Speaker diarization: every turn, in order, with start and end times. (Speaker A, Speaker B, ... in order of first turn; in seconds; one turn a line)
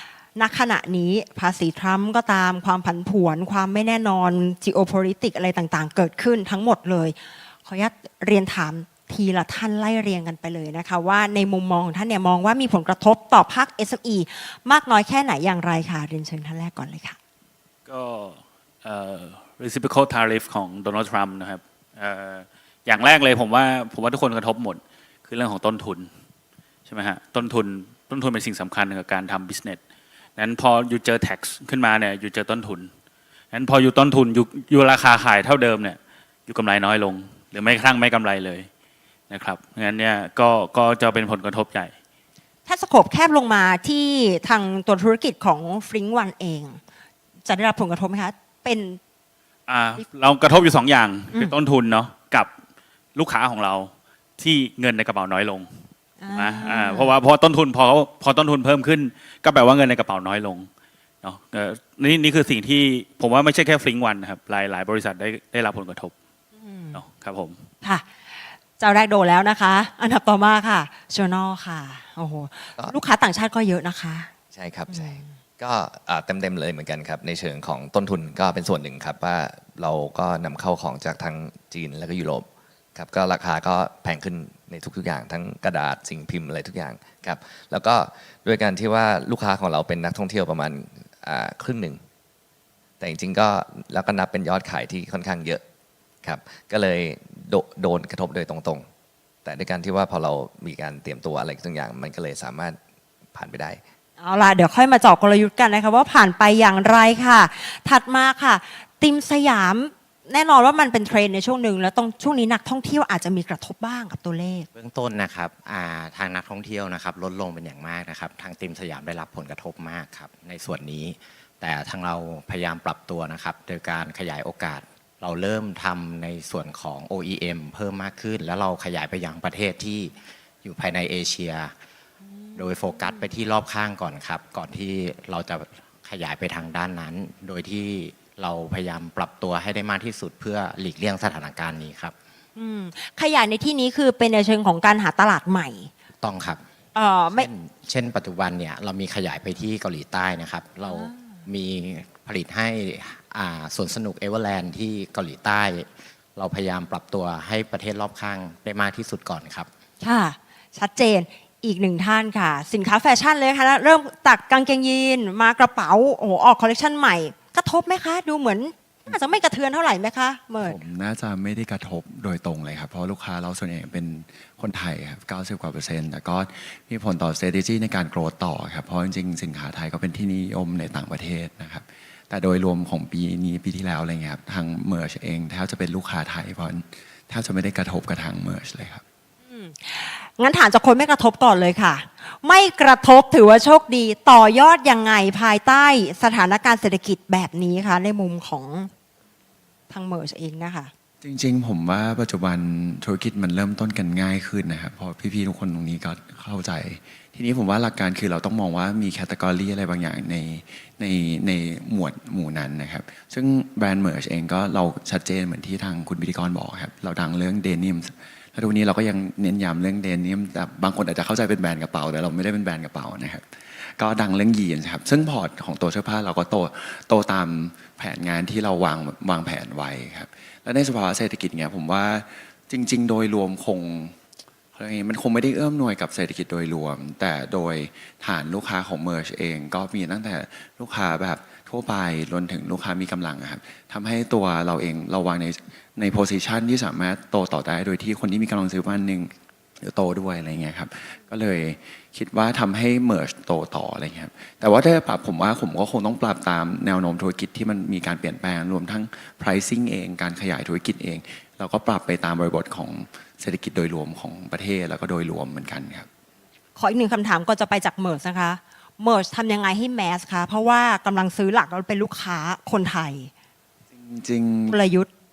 Speaker A: 0.4-17.2
Speaker B: 17.9-26.1
Speaker B: 26.9-29.8
Speaker B: 30.4-32.9
Speaker B: 33.5-38.7
Speaker B: 39.3-41.9
Speaker A: 42.7-46.8
Speaker A: 47.5-49.0
Speaker B: 49.7-52.5
Speaker B: 53.1-55.8
Speaker A: 56.2-57.1
Speaker B: 56.3-60.7
Speaker B: 61.2-66.1
Speaker A: 66.6-67.0
Speaker B: 67.0-67.7
Speaker A: 67.8-68.1
Speaker A: 68.8-74.3
Speaker C: 74.5-92.0
Speaker A: 74.9-75.3
Speaker C: 93.0-95.6
Speaker C: 96.2-98.8
Speaker C: 99.5-102.8
Speaker C: 103.3-103.8
Speaker A: 104.2-114.7
Speaker D: 114.8-131.7
Speaker A: 132.2-133.2
Speaker D: 132.6-142.2
Speaker A: 142.6-145.9
Speaker D: 146.2-146.6
Speaker A: 146.9-147.5
Speaker D: 147.3-159.7
Speaker A: 150.9-151.4
Speaker A: 160.0-170.8
Speaker E: 170.6-189.0
Speaker A: 189.5-198.9
Speaker A: 199.9-200.9
Speaker E: 201.2-223.4
Speaker E: 224.0-234.2
Speaker E: 234.7-266.1
Speaker A: 266.8-273.3
Speaker E: 273.9-274.8
Speaker A: 274.7-275.1